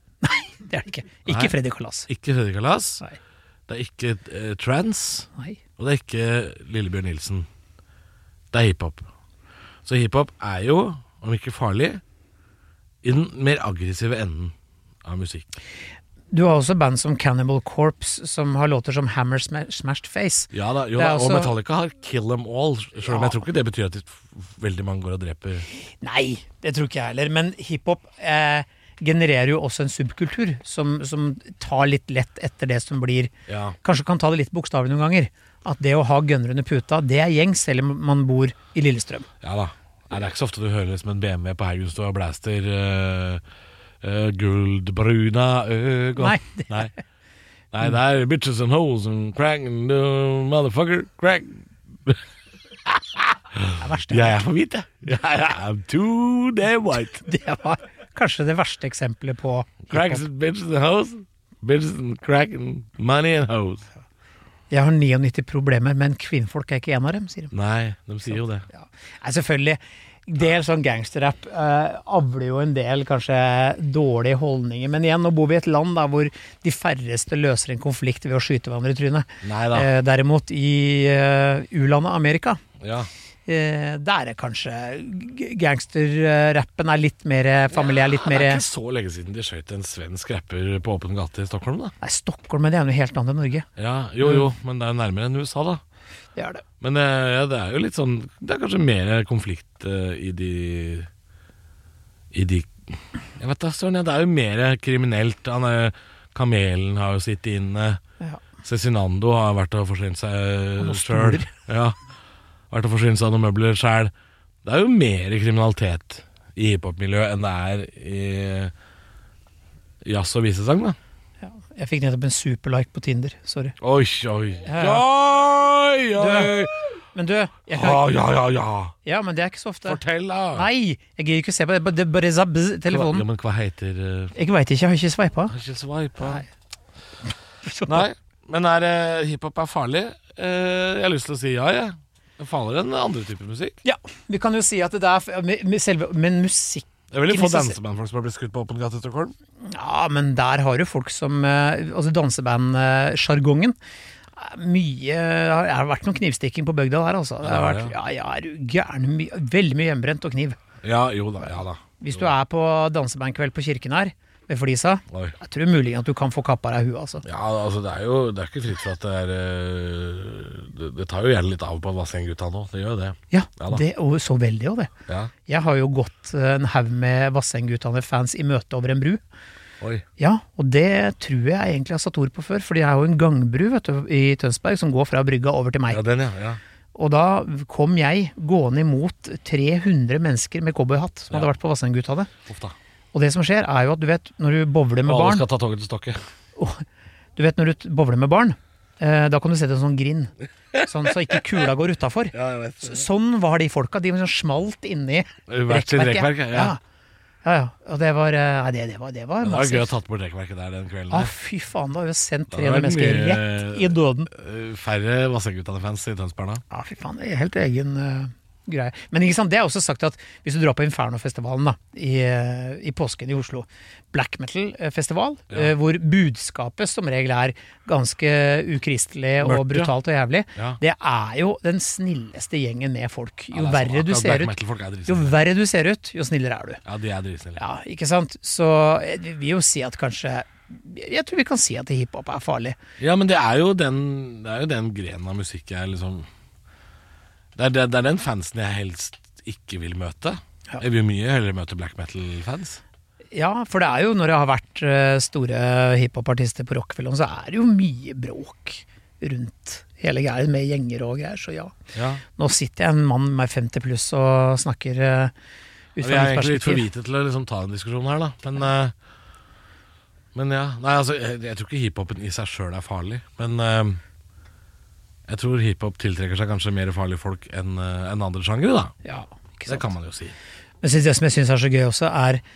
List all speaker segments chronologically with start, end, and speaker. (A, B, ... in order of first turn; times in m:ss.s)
0:00.2-0:02.1 A
0:01.3-0:01.5 B
0:02.1-0:03.0 B
0:03.7-0:07.5 B
0:08.5-0:09.1 B
0:09.8-0:12.0 B
0:13.0-0:15.5 B
0:16.3-0:21.5 A
0:20.5-0:25.6 B
0:23.1-0:23.4 A
0:26.0-0:39.3 A
0:33.5-0:33.8 B
0:39.4-0:43.4 B
0:44.0-0:46.9 B
0:46.2-0:46.9 A
0:47.7-0:52.2 B
0:52.8-0:57.2 B
0:53.8-0:54.4 A
0:57.2-1:00.2 A
0:59.9-1:03.9 B
1:04.7-1:07.5 A
1:07.5-1:08.7 B
1:08.7-1:22.6 A
1:19.4-1:19.9 B
1:22.8-1:23.1 B
1:23.4-1:28.6 A
1:27.7-1:31.9 B
1:32.0-1:33.7 A
1:33.8-1:35.8 B
1:36.4-1:36.6 A
1:36.8-1:41.1 B
1:42.3-1:48.0 B
1:48.6-1:52.0 B
1:50.8-1:51.5 A
1:52.7-1:54.1 B
1:54.6-1:58.7 B
2:00.0-2:01.0 B
2:01.4-2:03.7 A
2:03.8-2:06.9 B
2:04.6-2:05.0 A
2:06.2-2:06.5 A
2:07.1-2:08.1 A
2:07.7-2:08.9 B
2:09.0-2:10.0 A
2:09.8-2:10.7 B
2:10.5-2:13.2 A
2:12.9-2:14.3 B
2:14.3-2:15.5 A
2:15.5-2:16.4 B
2:16.2-2:16.4 A
2:17.6-2:18.1 A
2:17.9-2:23.8 B
2:23.8-2:27.8 A
2:27.1-2:29.3 B
2:29.6-2:33.8 A
2:34.4-2:40.6 A
2:37.4-2:37.9 B
2:40.8-2:42.3 B
2:42.0-2:47.2 A
2:45.1-2:45.4 B
2:47.2-2:53.8 B
2:53.3-2:54.9 A
2:55.5-2:59.2 A
3:00.2-3:06.0 A
3:05.9-3:06.6 B
3:06.9-3:12.3 A
3:12.4-3:12.8 B
3:13.1-3:15.4 A
3:15.0-3:16.2 B
3:16.6-3:16.8 A
3:17.4-3:26.8 A
3:20.7-3:21.3 B
3:22.3-3:23.1 B
3:25.5-3:26.7 B
3:27.4-3:29.9 A
3:29.4-3:31.3 B
3:31.1-3:34.3 A
3:32.5-3:36.6 B
3:36.7-3:54.5 A
3:49.4-3:49.9 B
3:53.5-3:55.4 B
3:55.0-3:56.8 A
3:56.8-3:57.6 B
3:57.6-4:02.8 A
4:03.0-4:06.3 B
4:07.6-4:12.8 B
4:13.3-4:21.7 A
4:21.9-4:22.2 B
4:22.3-4:25.3 A
4:26.0-4:26.8 A
4:26.0-4:28.9 B
4:30.3-4:34.0 B
4:35.3-4:39.0 B
4:39.0-4:39.9 A
4:39.7-4:40.4 B
4:40.8-4:42.4 A